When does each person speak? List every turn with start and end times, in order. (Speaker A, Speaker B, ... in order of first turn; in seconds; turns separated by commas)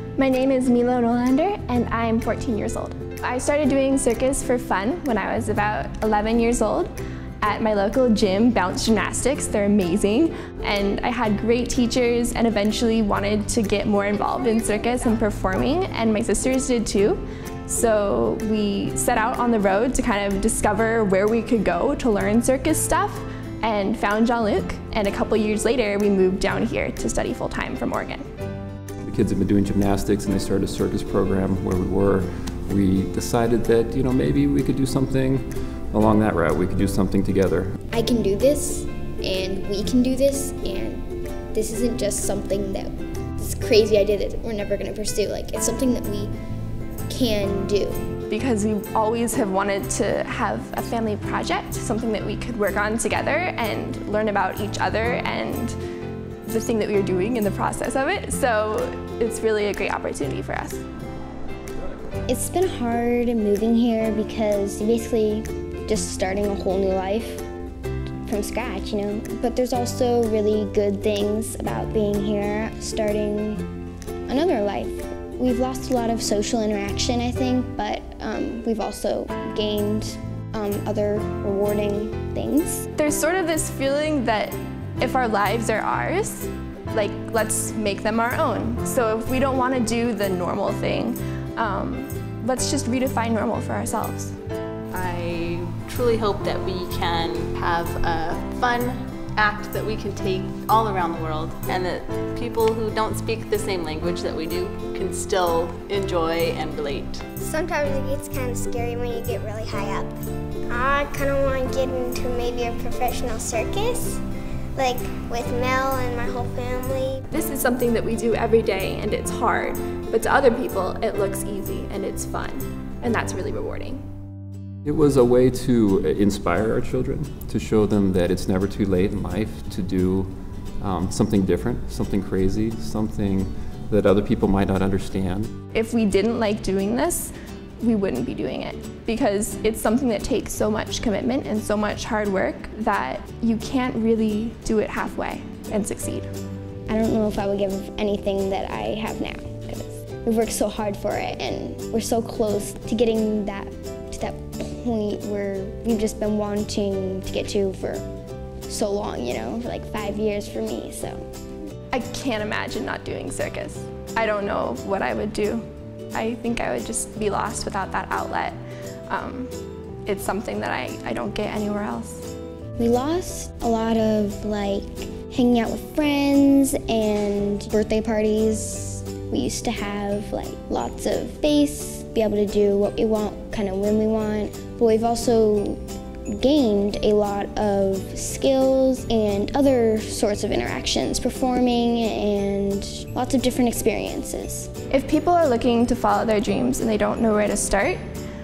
Speaker A: 0.2-28.2, Speaker B: 29.0-37.8, Speaker C: 37.9-46.3, Speaker C: 47.1-48.0, Speaker A: 48.3-55.7, Speaker A: 56.5-60.8, Speaker C: 62.3-67.4, Speaker C: 68.3-73.6, Speaker C: 74.3-82.9, Speaker A: 83.0-94.3, Speaker D: 94.9-107.2, Speaker E: 107.4-114.2, Speaker E: 114.8-117.2, Speaker A: 117.3-124.0, Speaker B: 124.8-135.5, Speaker A: 135.7-146.3, Speaker C: 146.9-158.0, Speaker C: 158.7-161.2, Speaker A: 161.9-168.6, Speaker A: 169.1-169.5, Speaker A: 170.0-172.3, Speaker C: 172.8-185.8, Speaker C: 186.4-194.7, Speaker A: 194.9-198.0